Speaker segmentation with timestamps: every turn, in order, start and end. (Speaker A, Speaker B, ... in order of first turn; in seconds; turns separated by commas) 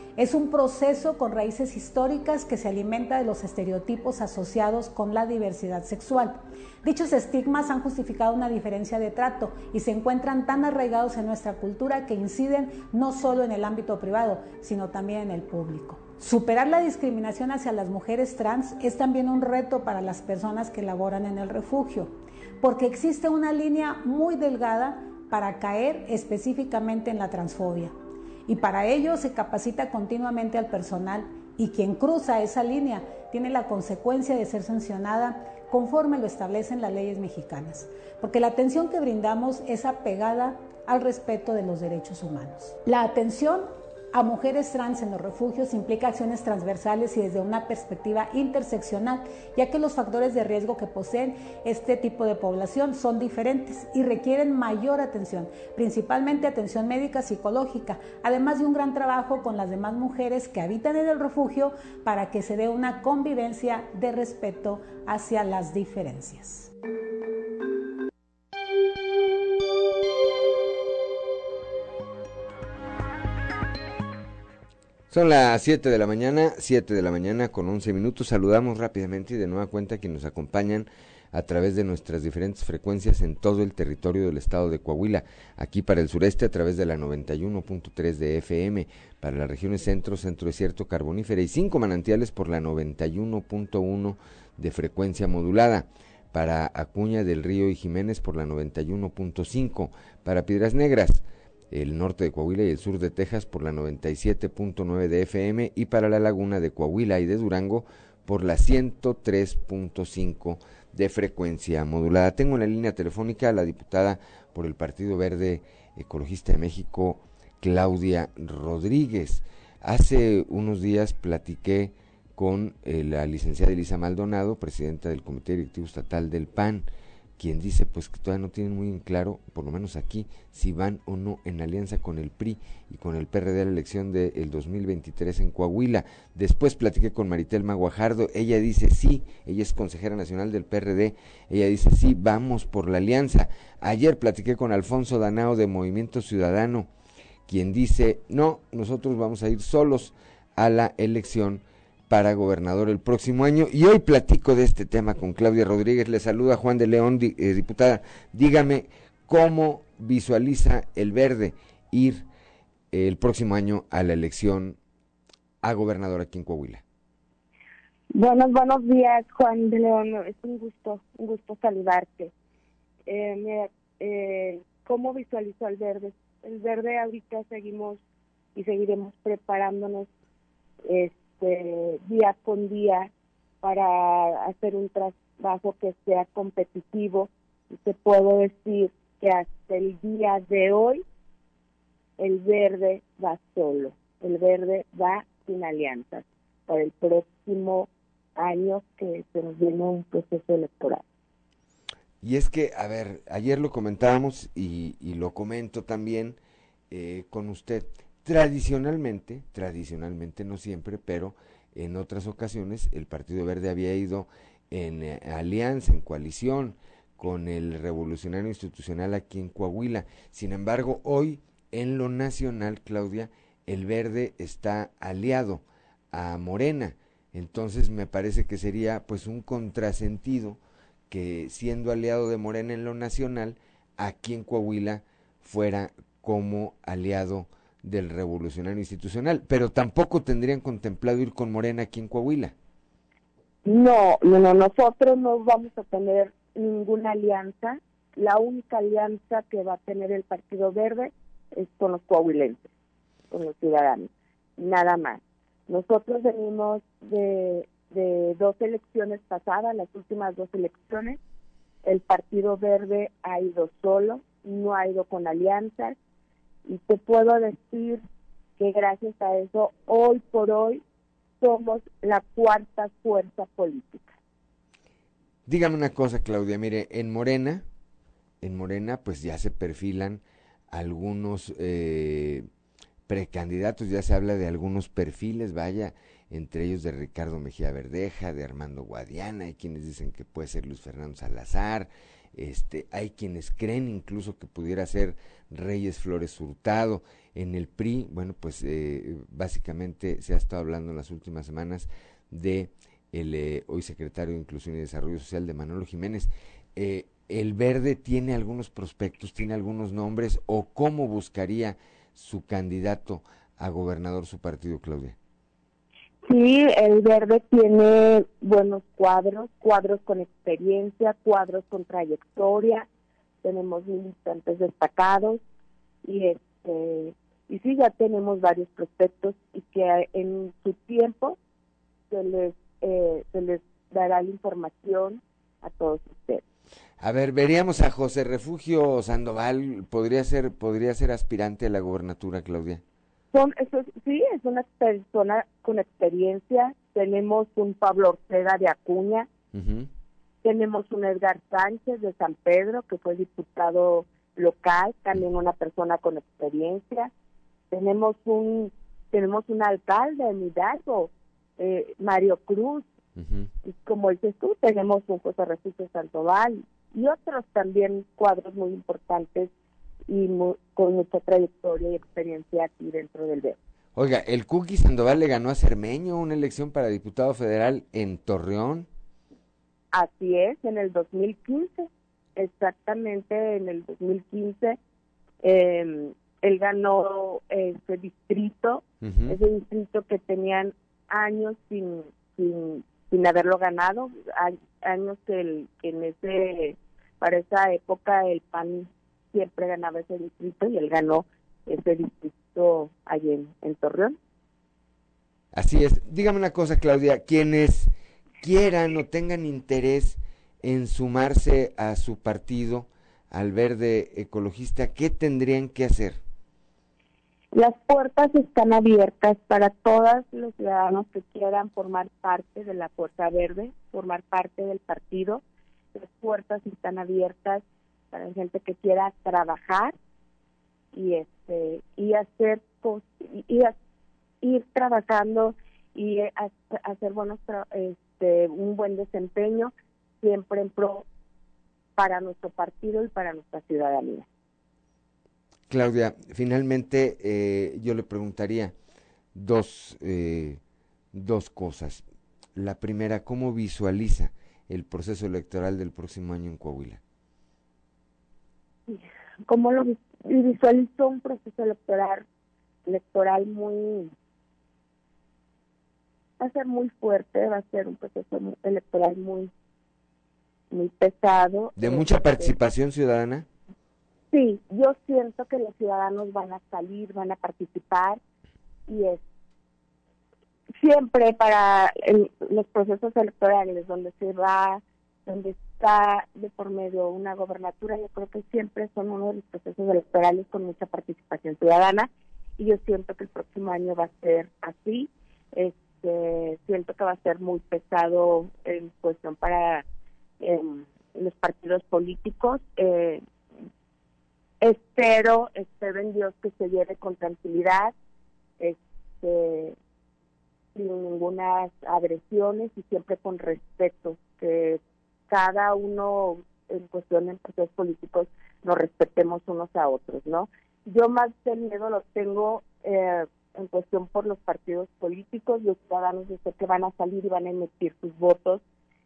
Speaker A: 0.2-27.9, Speaker A: 28.5-66.7, Speaker B: 75.1-126.9, Speaker B: 127.4-146.9, Speaker B: 147.5-162.2, Speaker B: 162.9-164.8, Speaker B: 165.6-166.8, Speaker C: 168.1-172.3, Speaker C: 173.1-178.0, Speaker C: 178.5-180.1, Speaker C: 180.9-183.1, Speaker C: 183.6-191.0, Speaker C: 192.2-201.0, Speaker B: 202.2-206.4, Speaker B: 206.9-242.5, Speaker C: 243.7-252.7, Speaker C: 253.3-261.2, Speaker C: 261.8-265.9, Speaker C: 266.6-268.0, Speaker C: 268.6-270.8, Speaker C: 271.4-274.1, Speaker B: 275.5-277.6, Speaker B: 278.4-282.5, Speaker B: 283.1-315.1, Speaker C: 316.2-322.9, Speaker C: 323.4-325.4, Speaker C: 326.0-331.4, Speaker C: 332.1-336.4, Speaker B: 337.0-342.8, Speaker C: 343.3-349.3, Speaker B: 349.5-349.9, Speaker C: 350.4-357.1, Speaker C: 357.7-362.9, Speaker B: 363.1-363.5, Speaker C: 363.6-369.5, Speaker C: 370.1-373.6, Speaker B: 373.9-378.9, Speaker C: 379.9-384.8, Speaker C: 385.4-404.1, Speaker B: 389.0-389.4, Speaker B: 405.5-407.9, Speaker B: 408.4-416.2, Speaker C: 417.5-425.4, Speaker C: 425.9-429.9, Speaker C: 430.9-433.7, Speaker C: 434.4-441.0, Speaker C: 441.9-444.2, Speaker B: 445.7-448.7, Speaker B: 449.3-450.6, Speaker B: 451.1-452.0, Speaker B: 452.6-457.0, Speaker C: 458.9-462.2, Speaker C: 462.9-464.1, Speaker C: 466.4-469.5, Speaker C: 470.7-472.6, Speaker B: 471.8-473.4, Speaker C: 474.3-478.2, Speaker C: 478.9-479.2, Speaker C: 480.8-499.8, Speaker C: 500.4-503.2, Speaker C: 504.6-507.9, Speaker C: 508.6-509.8, Speaker C: 510.7-528.6